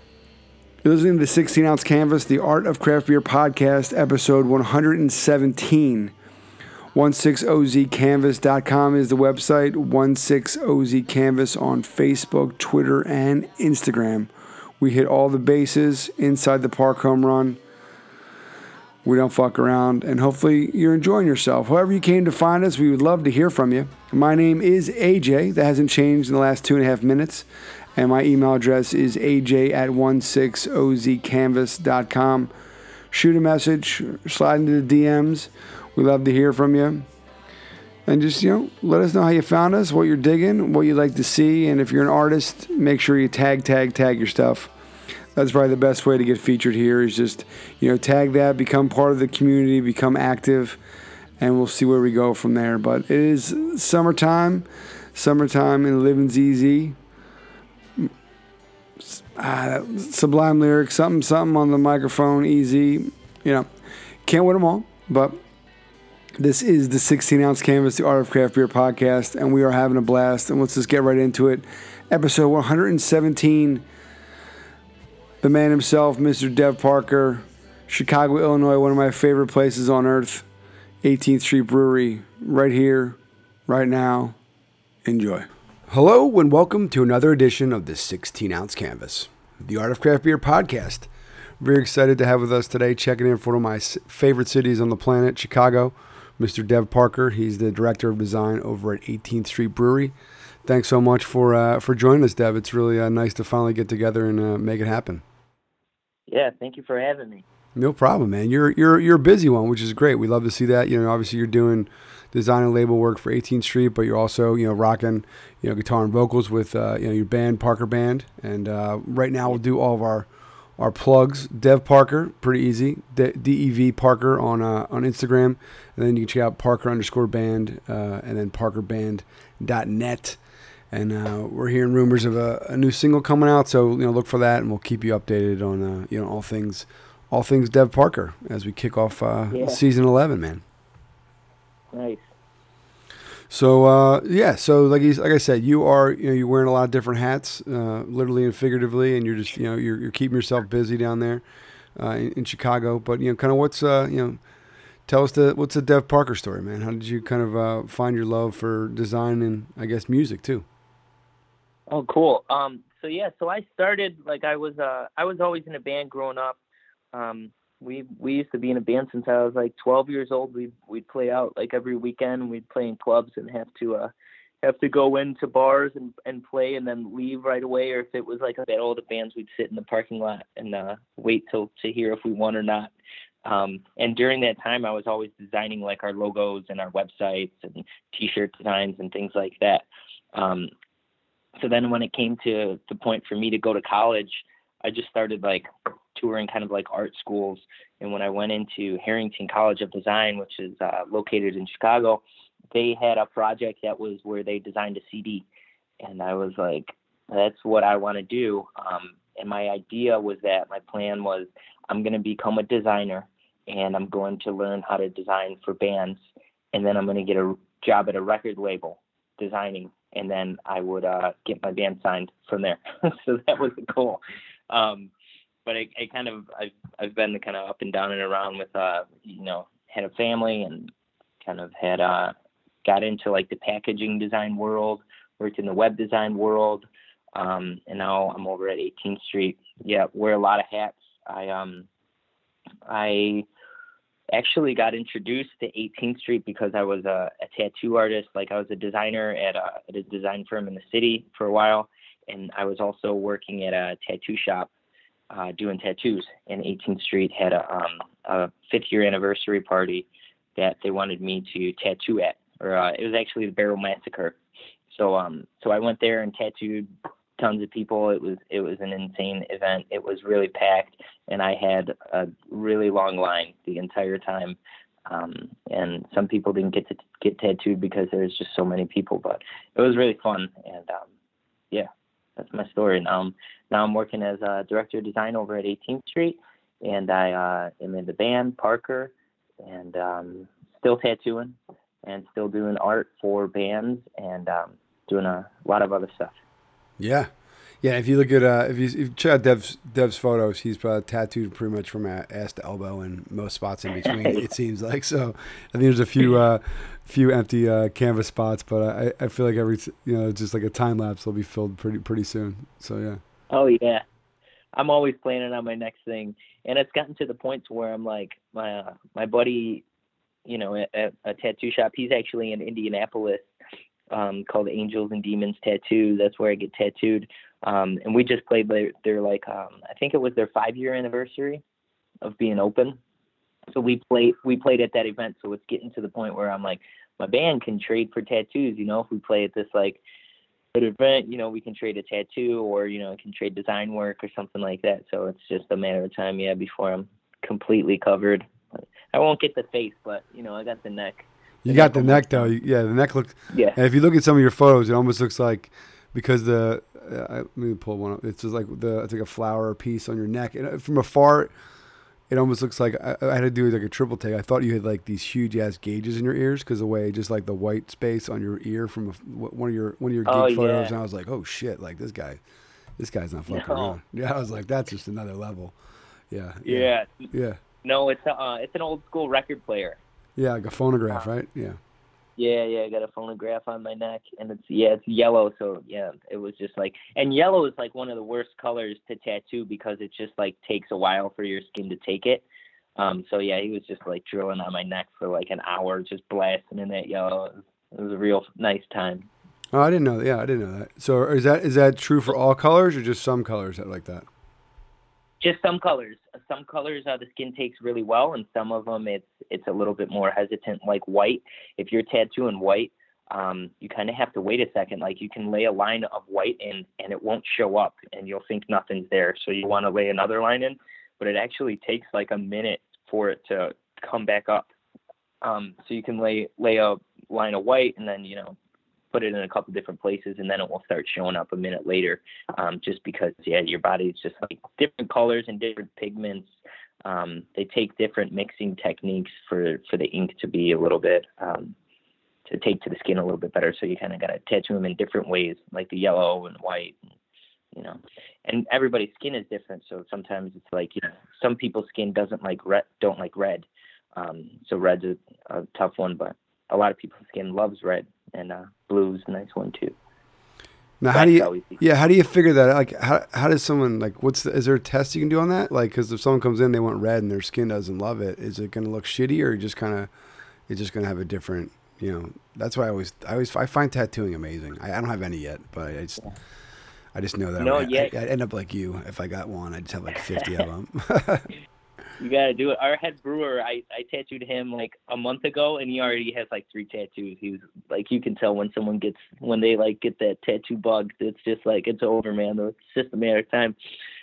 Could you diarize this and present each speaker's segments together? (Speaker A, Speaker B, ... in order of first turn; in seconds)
Speaker A: 0.8-6.1, 6.9-17.6, 19.0-32.5, 33.1-37.0, 38.0-44.7, 45.3-50.8, 51.4-57.0, 59.0-63.7, 64.2-65.4, 66.4-73.8, 75.4-80.5, 81.0-84.4, 85.0-100.1, 100.6-105.2, 107.8-130.4, 130.9-140.6, 143.5-151.4, 151.9-154.4, 155.1-160.7, 297.0-297.3, 297.8-313.2, 351.6-361.5, 362.3-372.4, 373.0-375.7, 376.3-377.6, 380.4-381.8, 399.7-404.2, 461.0-470.1, 470.7-476.2, 477.1-481.5
Speaker B: 106.3-107.4, 139.5-139.8, 141.9-142.3, 161.9-166.6, 167.1-182.9, 183.4-190.7, 191.6-205.4, 206.0-216.2, 216.7-225.1, 225.7-230.9, 231.4-232.3, 232.8-241.9, 242.8-243.4, 244.3-254.7, 255.3-264.4, 264.9-274.6, 275.1-281.1, 281.7-296.4, 304.1-304.4, 313.5-314.0, 314.8-319.8, 320.4-323.5, 324.1-331.6, 332.2-333.0, 333.7-340.0, 340.7-348.4, 349.1-352.5, 353.5-353.8, 370.2-370.9, 373.5-373.9, 376.6-377.3, 377.8-380.0, 382.4-392.4, 393.0-399.3, 405.4-424.7, 425.4-428.6, 429.1-436.5, 437.1-441.7, 442.5-446.9, 447.7-459.9, 461.1-461.8, 477.6-478.1, 482.2-493.7